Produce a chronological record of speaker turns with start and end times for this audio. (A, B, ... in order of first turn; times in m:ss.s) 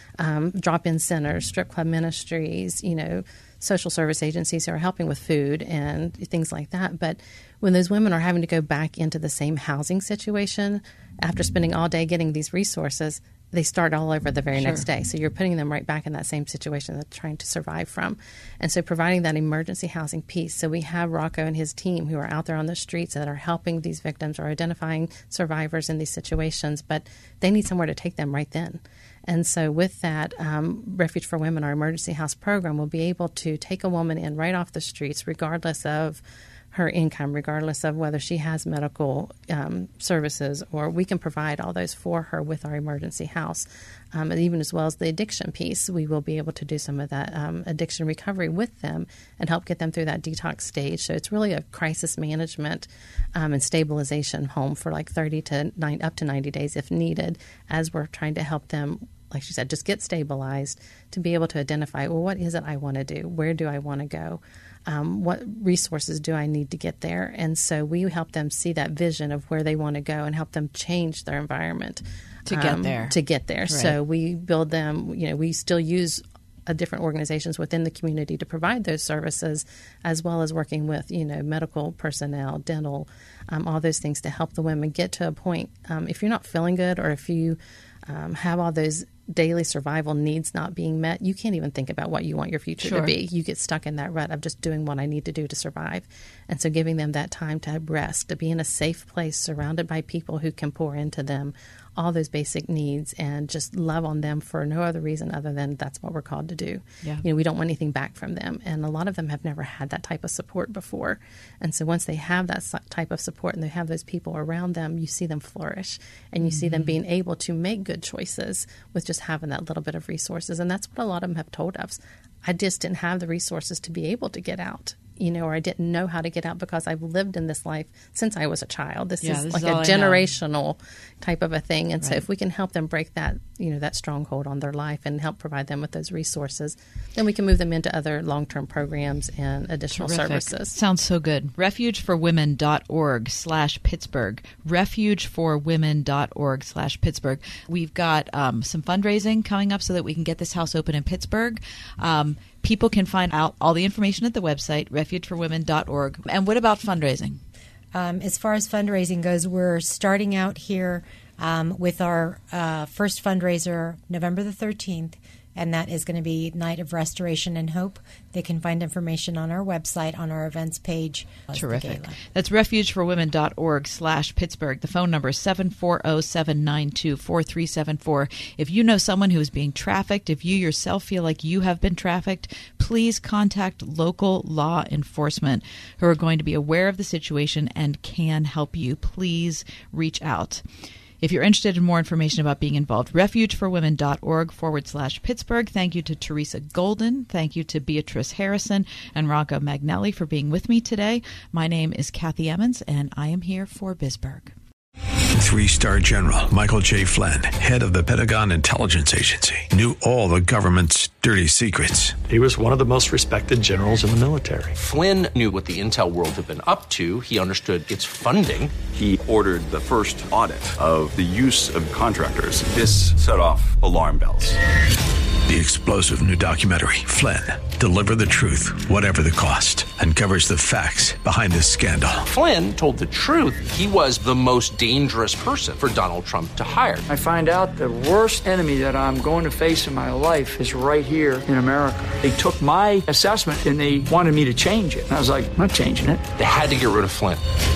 0:00.2-2:20.8 A
0:14.6-0:14.8 B
1:12.4-1:13.1 B
1:13.7-1:14.0 B
1:32.8-1:33.1 B
1:56.4-1:56.9 B
2:09.2-2:10.3 B
2:19.9-2:37.4 B
2:37.9-2:52.2 C
2:51.5-3:10.6 B
3:11.2-3:24.5 B
3:25.4-3:32.2 D
3:32.3-3:34.8 E
3:34.8-3:38.8 F
3:38.9-3:44.6 G
3:45.4-3:52.3 D
3:52.3-3:57.1 F
3:57.1-4:06.3 H
4:06.3-4:07.4 F